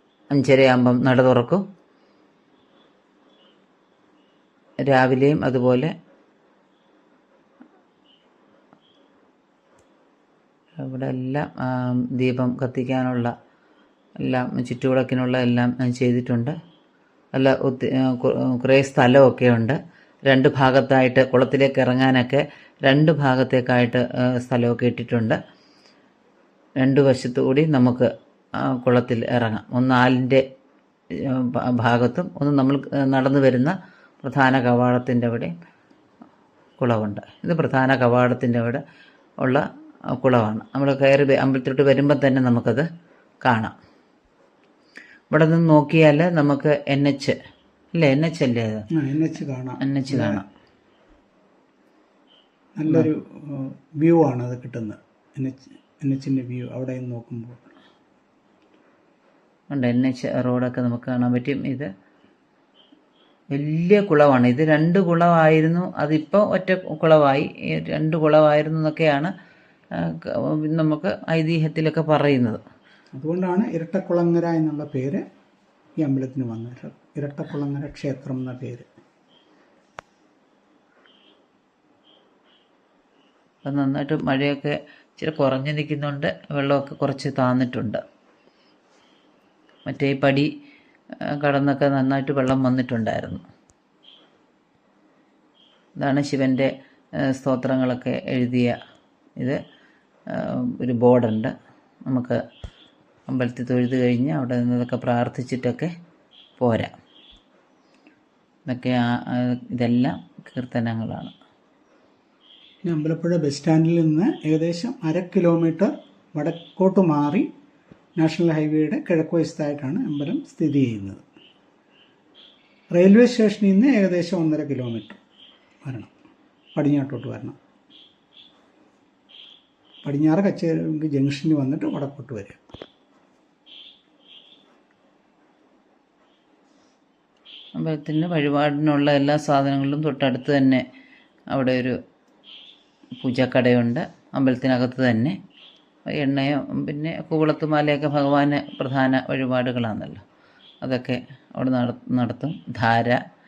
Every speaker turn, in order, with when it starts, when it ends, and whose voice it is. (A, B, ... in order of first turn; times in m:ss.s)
0:00.3-0:01.6 A
0:04.9-0:05.9 A
0:10.8-0:13.3 A
0:14.2-0:16.5 A
0:17.3-0:19.8 A
0:20.3-0:25.4 A
0:26.8-0:28.1 A
0:28.6-0:30.4 A
0:31.2-0:35.5 A
0:36.8-0:38.8 A
0:39.4-0:42.9 A
0:43.4-0:43.7 A
0:45.3-0:47.4 A
0:48.0-0:48.8 A
0:48.9-0:50.4 B
0:49.8-0:50.4 A
0:52.8-0:57.7 B
0:59.7-1:01.9 A
1:03.5-1:09.3 A
1:10.0-1:12.6 A
1:13.2-1:15.2 B
1:16.0-1:18.9 B
1:23.6-1:28.0 A
1:29.9-1:30.5 A
1:31.3-1:33.4 A
1:36.0-1:36.7 A
1:37.2-1:38.8 A
1:40.3-1:41.5 A
1:42.1-1:42.4 A
1:43.3-1:45.9 A
1:46.6-1:46.9 A
1:48.7-1:51.3 A
1:52.8-1:57.5 B
1:58.2-2:01.2 B
2:02.9-2:05.2 B
2:05.8-2:06.1 B
2:06.8-2:07.6 B
2:10.0-2:12.6 B
2:17.8-2:20.8 A
2:21.5-2:22.0 A
2:23.2-2:25.4 A
2:26.1-2:30.2 A
2:30.8-2:33.2 A